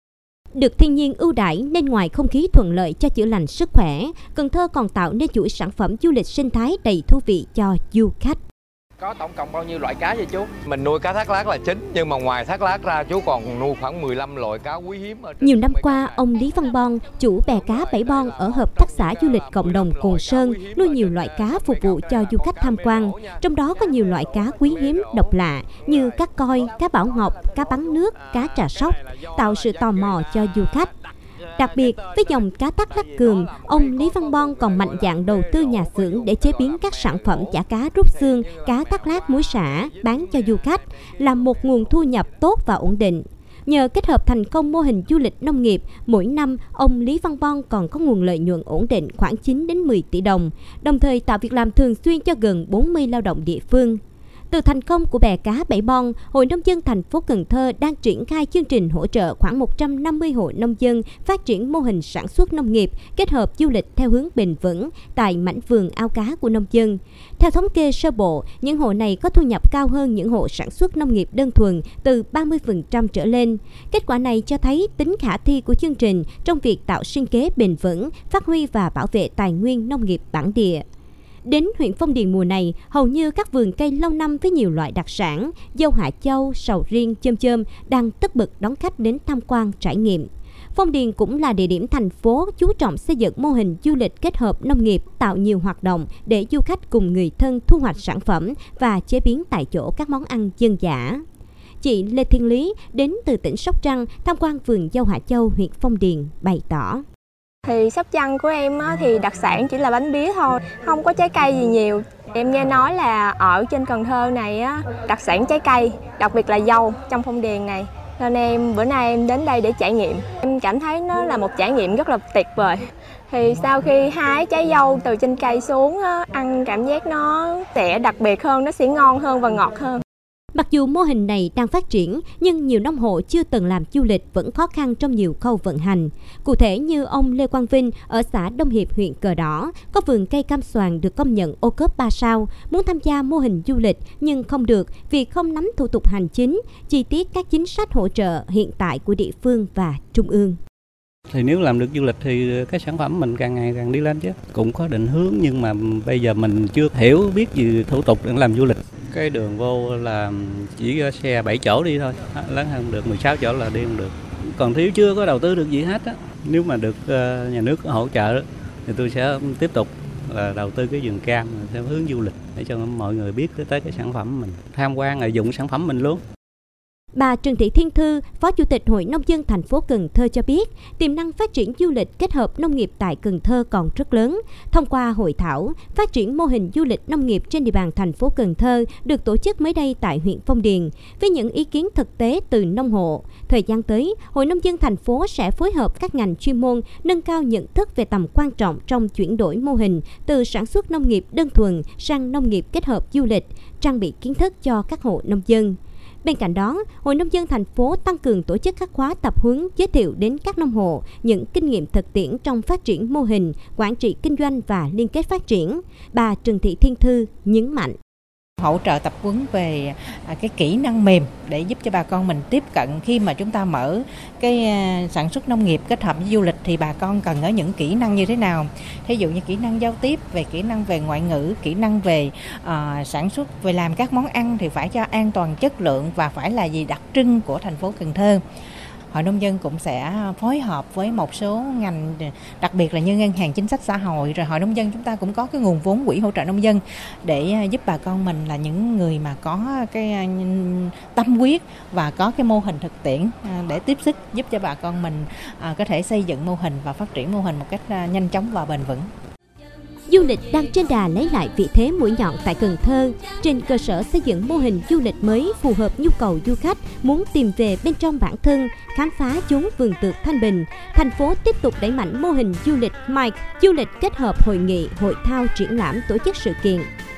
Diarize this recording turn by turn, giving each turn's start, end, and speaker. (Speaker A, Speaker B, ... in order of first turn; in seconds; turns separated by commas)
Speaker A: 0.5-8.4, Speaker B: 9.0-16.3, Speaker A: 15.4-30.9, Speaker B: 17.5-27.3, Speaker B: 28.7-30.2, Speaker B: 31.5-37.6, Speaker A: 31.6-54.0, Speaker B: 38.1-40.6, Speaker B: 41.5-42.0, Speaker A: 54.5-80.8, Speaker A: 81.5-101.2, Speaker A: 101.8-107.0, Speaker C: 107.7-122.8, Speaker C: 123.3-130.0, Speaker A: 130.5-150.6, Speaker D: 151.3-176.2, Speaker A: 177.1-217.9, Speaker E: 218.6-238.4, Speaker E: 239.1-259.1, Speaker A: 260.1-276.9